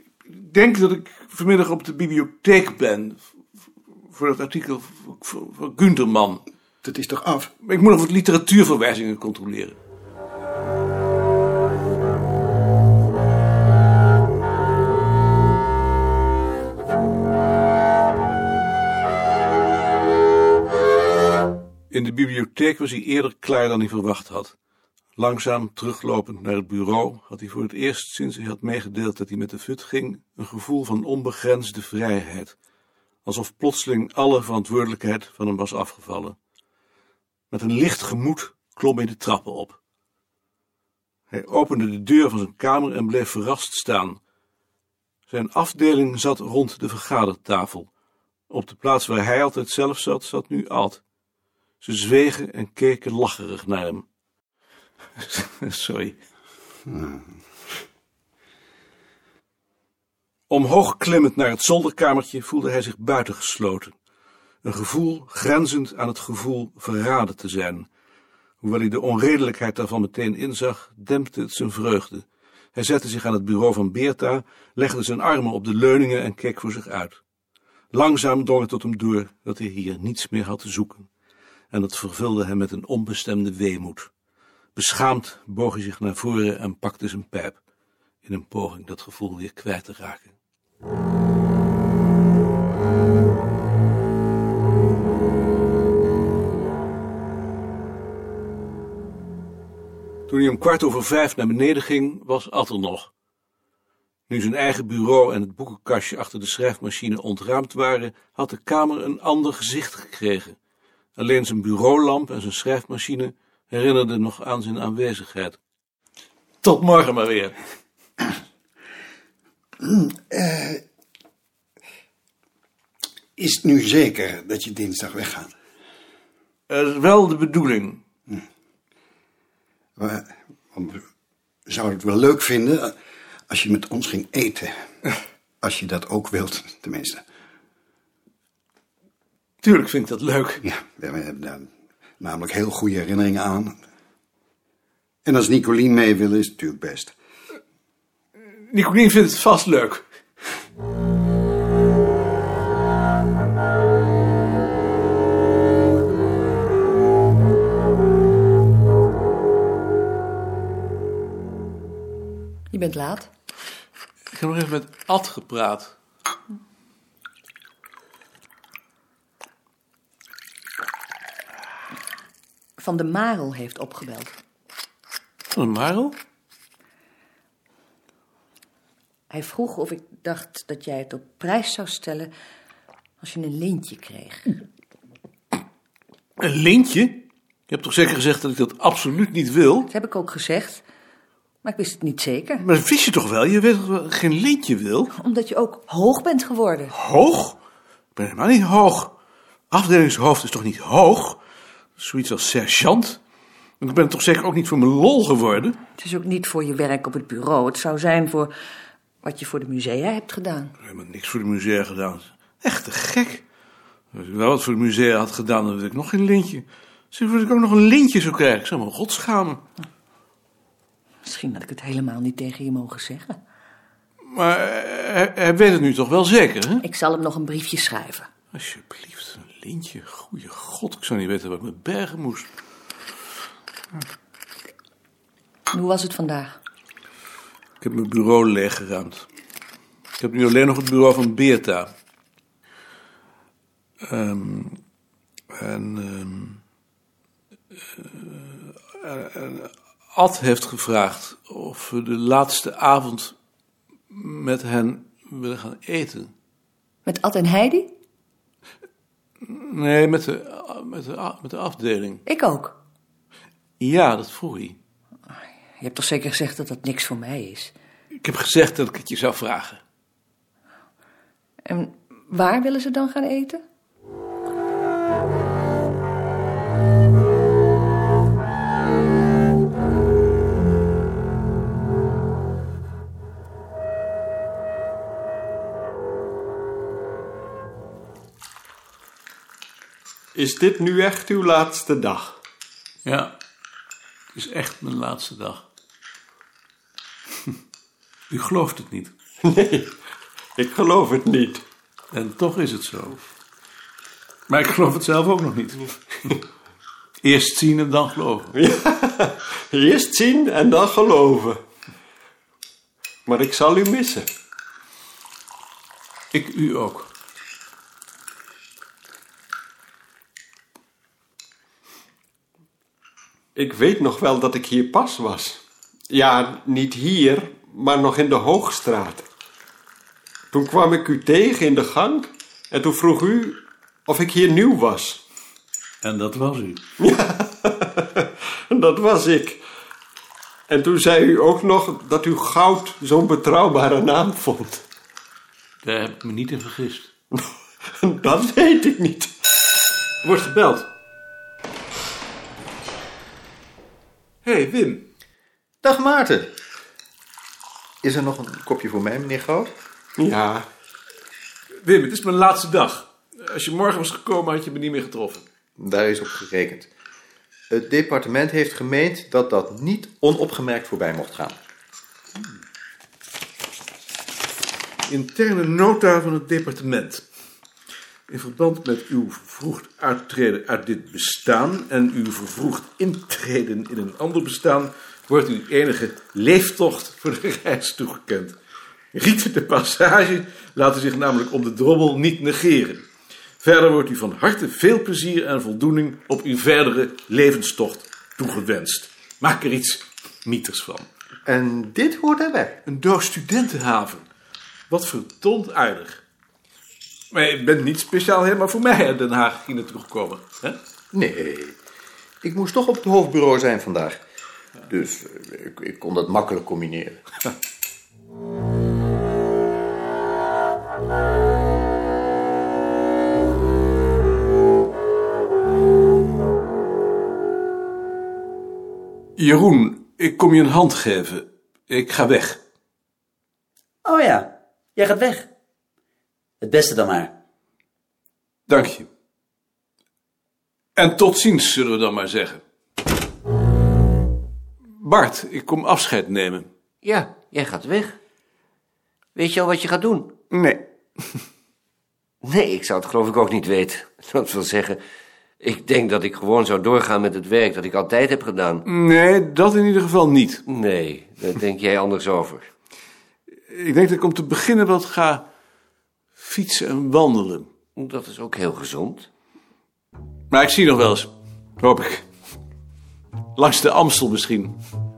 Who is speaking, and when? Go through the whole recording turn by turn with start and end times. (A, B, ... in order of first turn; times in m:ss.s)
0:00.3-0:03.2 A
0:04.1-0:06.4 A
0:06.8-0:07.5 B
0:07.6-0:09.8 A
0:21.9-0:24.6 A
0:25.2-0:32.6 A
0:33.2-0:36.4 A
0:37.5-0:39.8 A
0:41.3-0:44.2 A
0:45.3-0:47.9 A
0:48.5-0:51.0 A
0:51.8-0:54.1 A
0:55.2-0:56.2 A
0:56.9-0:57.3 B
1:00.5-1:04.0 A
1:04.6-1:07.9 A
1:08.6-1:17.2 A
1:17.9-1:21.1 A
1:21.7-1:24.1 A
1:24.8-1:27.6 A
1:28.2-1:30.3 A
1:40.3-1:43.1 A
1:44.3-1:50.6 A
1:51.2-1:55.6 A
1:56.6-1:57.5 A
1:59.8-2:00.8 B
2:03.4-2:05.5 B
2:06.7-2:08.0 A
2:10.0-2:11.0 B
2:11.7-2:12.9 B
2:13.5-2:14.7 B
2:15.6-2:17.2 B
2:19.6-2:20.6 A
2:20.6-2:21.7 B
2:22.2-2:23.8 B
2:25.2-2:27.2 B
2:28.7-2:30.0 A
2:42.7-2:43.3 C
2:44.3-2:46.0 A
2:52.8-2:54.4 C
2:55.5-2:56.2 A
2:59.3-3:02.3 C
3:03.2-3:04.6 C
3:06.4-3:09.9 A
3:09.9-3:10.8 C
3:11.6-3:12.6 C
3:12.6-3:15.1 A
3:15.2-3:16.9 C
3:16.9-3:17.6 A
3:18.2-3:19.1 A
3:19.7-3:21.4 A
3:22.0-3:23.2 A
3:23.8-3:25.8 A
3:26.0-3:28.5 C
3:29.2-3:30.7 C
3:30.8-3:33.4 A
3:34.1-3:39.6 A
3:41.2-3:43.4 C
3:44.3-3:46.8 A
3:46.8-3:48.3 C
3:48.5-3:52.5 A
3:55.7-3:56.6 C
3:57.8-3:59.3 A
4:00.2-4:01.9 A
4:04.1-4:04.8 A
4:05.5-4:06.6 A
4:08.0-4:13.3 A
4:14.1-4:16.3 A
4:17.0-4:17.9 C
4:19.4-4:22.2 A
4:22.3-4:22.8 C
4:23.8-4:24.8 A
4:25.8-4:27.7 C
4:28.2-4:29.8 A
4:31.6-4:33.6 C
4:50.3-4:52.4 D
4:53.0-4:53.3 A
4:54.3-4:55.6 A
4:58.3-4:59.1 A
4:59.4-4:59.9 D
5:00.6-5:01.6 D
5:02.1-5:03.2 A
5:04.5-5:05.9 A
5:07.2-5:08.5 A
5:08.6-5:11.6 D
5:13.3-5:14.3 D
5:16.3-5:17.1 A
5:23.6-5:29.3 D
5:30.5-5:35.2 D
5:36.0-5:36.8 A
5:37.0-5:39.6 D
5:40.7-5:44.8 D
5:45.8-5:47.1 A
5:48.0-5:49.3 D
5:50.2-5:50.9 A
5:54.4-5:55.0 A
5:55.8-5:56.5 E
5:58.0-5:59.7 E
6:00.2-6:00.7 D
6:01.8-6:05.4 A
6:05.8-6:06.9 E
6:07.7-6:11.6 E
6:15.1-6:17.2 A
6:18.3-6:28.6 A
6:29.1-6:33.1 A
6:33.6-6:41.1 A
6:41.5-6:42.8 E
6:42.9-6:44.2 A
6:44.9-6:46.2 A
6:47.3-6:50.8 A
6:51.1-6:51.8 E
6:52.4-6:54.2 E
6:54.9-6:57.2 E
7:09.4-7:12.6 A
7:14.0-7:15.5 F
7:16.6-7:17.3 F
7:18.7-7:19.1 A
7:21.0-7:22.6 A
7:25.0-7:26.7 A
7:27.0-7:28.2 G
7:29.4-7:30.3 G
7:30.5-7:30.8 A
7:32.4-7:35.0 G
7:35.6-7:38.8 G
7:38.8-7:40.6 A
7:40.7-7:42.7 G
7:43.7-7:45.4 A
7:46.4-7:47.7 A
7:48.0-7:49.3 G
7:50.5-7:52.2 A
7:53.6-7:54.8 A